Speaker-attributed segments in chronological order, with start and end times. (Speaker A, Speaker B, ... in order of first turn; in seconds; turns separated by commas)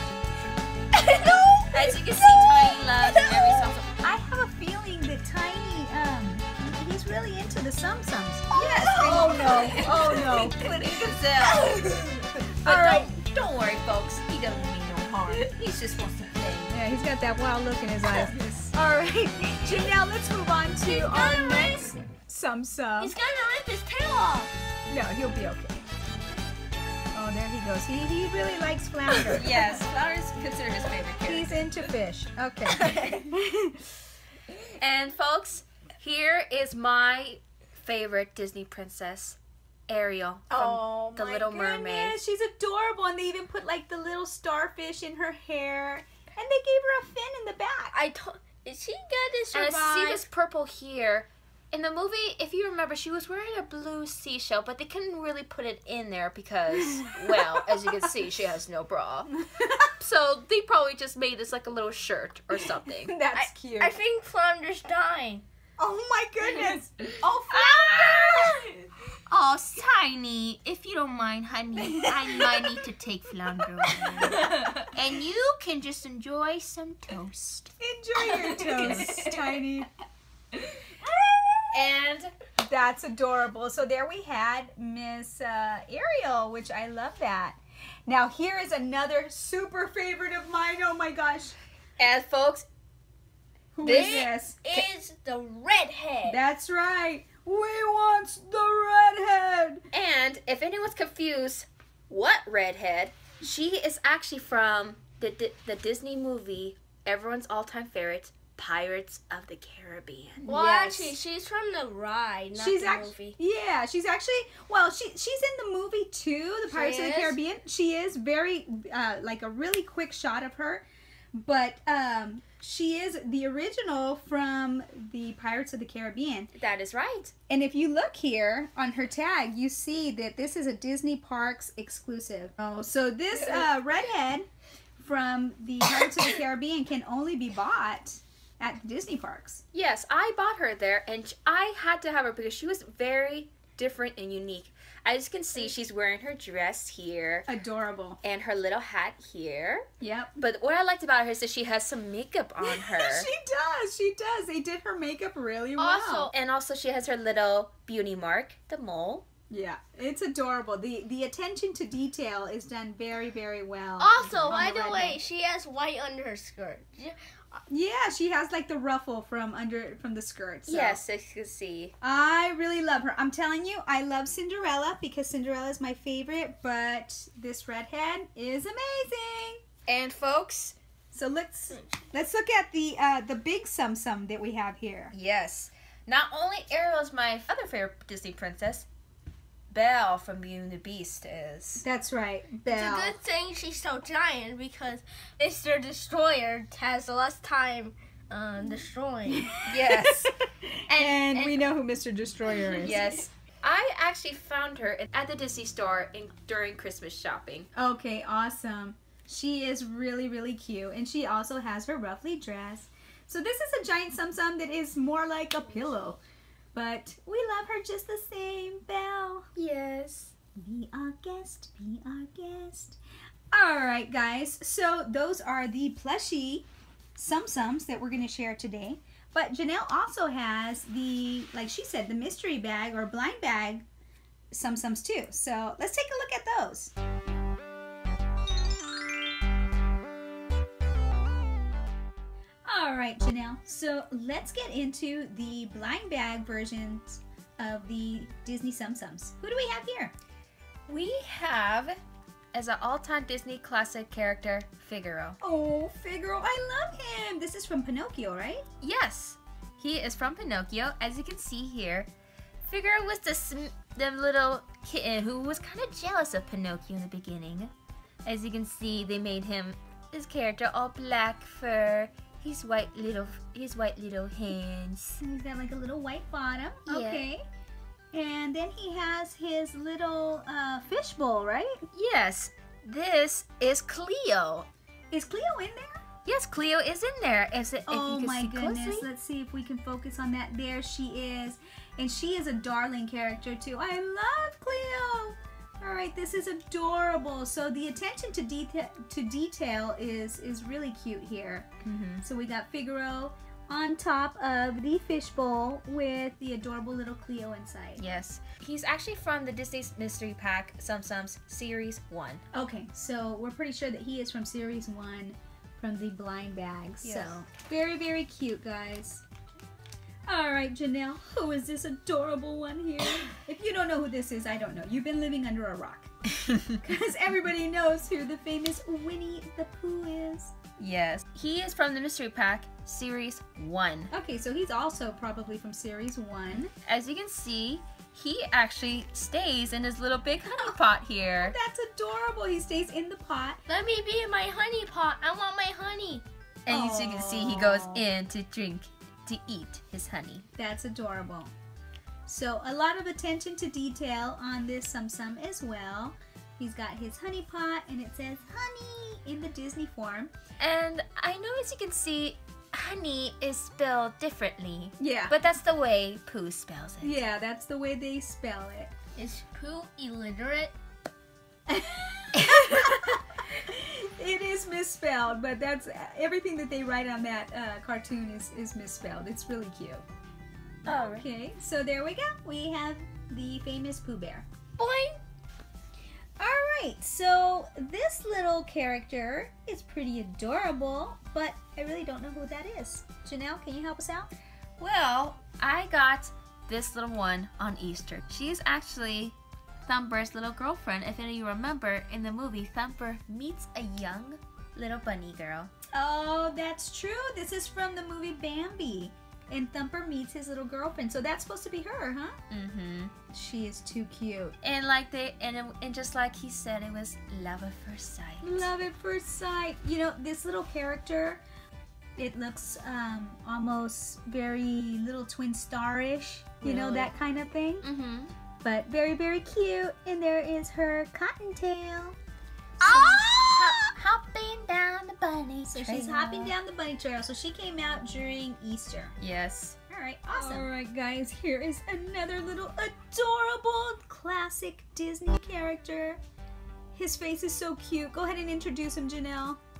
Speaker A: 1.0-1.6, Speaker B: 1.5-2.4, Speaker C: 1.7-3.9, Speaker A: 2.5-3.7, Speaker B: 4.0-11.2, Speaker A: 8.6-10.1, Speaker C: 8.8-11.8, Speaker A: 11.4-12.2, Speaker B: 11.8-13.1, Speaker C: 12.6-16.8, Speaker B: 16.7-23.1, Speaker C: 18.1-18.5, Speaker A: 20.8-21.9, Speaker A: 23.0-24.5, Speaker B: 24.9-25.9, Speaker B: 27.1-29.8, Speaker C: 29.3-31.7, Speaker B: 31.2-33.9, Speaker A: 32.8-33.0, Speaker C: 34.6-42.2, Speaker A: 40.5-41.4, Speaker B: 41.3-48.0, Speaker A: 47.9-50.2, Speaker C: 49.5-59.3, Speaker B: 57.3-57.7, Speaker B: 59.4-59.9, Speaker C: 60.0-63.1, Speaker B: 62.6-63.9, Speaker A: 63.3-65.4, Speaker B: 65.8-68.6, Speaker C: 67.5-68.6, Speaker C: 69.3-77.7, Speaker B: 71.8-72.7, Speaker A: 74.3-74.9, Speaker B: 77.8-79.9, Speaker C: 78.5-79.6, Speaker B: 81.1-81.7, Speaker C: 81.7-82.3, Speaker B: 82.6-91.6, Speaker C: 92.0-92.7, Speaker B: 93.7-94.8, Speaker C: 93.8-94.3, Speaker A: 93.8-96.4, Speaker B: 96.2-99.8, Speaker C: 99.9-111.2, Speaker A: 110.5-113.3, Speaker B: 112.5-126.5, Speaker A: 116.7-117.4, Speaker C: 126.5-127.3, Speaker B: 127.5-139.6, Speaker C: 139.7-147.5, Speaker B: 147.5-148.2, Speaker C: 148.2-149.9, Speaker B: 150.0-150.4, Speaker C: 150.4-153.3, Speaker B: 152.6-156.3, Speaker C: 155.8-159.3, Speaker A: 155.8-156.3, Speaker B: 159.5-165.2, Speaker A: 164.0-167.6, Speaker B: 167.7-171.0, Speaker C: 170.7-171.9, Speaker B: 172.0-179.6, Speaker C: 179.9-180.8, Speaker B: 181.1-185.1, Speaker C: 185.1-188.9, Speaker C: 189.7-191.8, Speaker B: 191.8-193.2, Speaker A: 192.7-199.5, Speaker B: 199.3-203.3, Speaker C: 199.7-200.3, Speaker C: 200.9-201.7, Speaker A: 202.7-203.0, Speaker C: 202.8-207.7, Speaker B: 207.8-216.2, Speaker B: 216.7-219.5, Speaker C: 219.6-220.3, Speaker B: 220.6-223.0, Speaker B: 223.5-233.8, Speaker B: 234.5-236.9, Speaker B: 242.7-250.1, Speaker C: 250.9-252.0, Speaker C: 252.5-255.4, Speaker B: 255.4-258.6, Speaker C: 258.8-262.1, Speaker C: 262.6-267.7, Speaker C: 268.2-275.2, Speaker B: 275.2-277.4, Speaker C: 276.9-277.2, Speaker B: 278.1-281.8, Speaker C: 281.9-284.7, Speaker B: 285.1-286.0, Speaker C: 286.2-289.1, Speaker B: 287.9-301.7, Speaker C: 301.8-302.2, Speaker B: 302.2-308.0, Speaker C: 308.0-312.4, Speaker B: 312.5-319.2, Speaker C: 317.0-317.4, Speaker B: 320.3-330.5, Speaker C: 330.8-334.1, Speaker B: 334.1-336.7, Speaker C: 336.8-341.6, Speaker B: 340.5-340.8, Speaker B: 341.4-343.6, Speaker A: 343.7-346.2, Speaker C: 346.6-350.4, Speaker B: 346.7-348.0, Speaker B: 350.6-351.5, Speaker B: 352.3-360.3, Speaker C: 360.6-367.2, Speaker B: 365.0-365.3, Speaker B: 367.0-368.9, Speaker A: 369.1-370.7, Speaker B: 371.7-380.0, Speaker C: 372.4-373.2, Speaker C: 380.8-381.3, Speaker B: 380.9-384.5, Speaker A: 384.8-385.2, Speaker B: 386.4-394.3, Speaker C: 394.8-405.7, Speaker B: 405.9-412.4, Speaker C: 412.5-413.1, Speaker B: 413.3-414.6, Speaker C: 414.6-418.7, Speaker B: 418.4-421.4, Speaker B: 422.2-427.9, Speaker C: 426.6-427.1, Speaker C: 427.8-428.3, Speaker B: 428.6-432.2, Speaker B: 432.8-433.9, Speaker C: 432.8-436.5, Speaker B: 435.7-439.1, Speaker C: 439.2-439.8, Speaker B: 439.9-446.2, Speaker C: 440.3-440.7, Speaker B: 446.9-449.6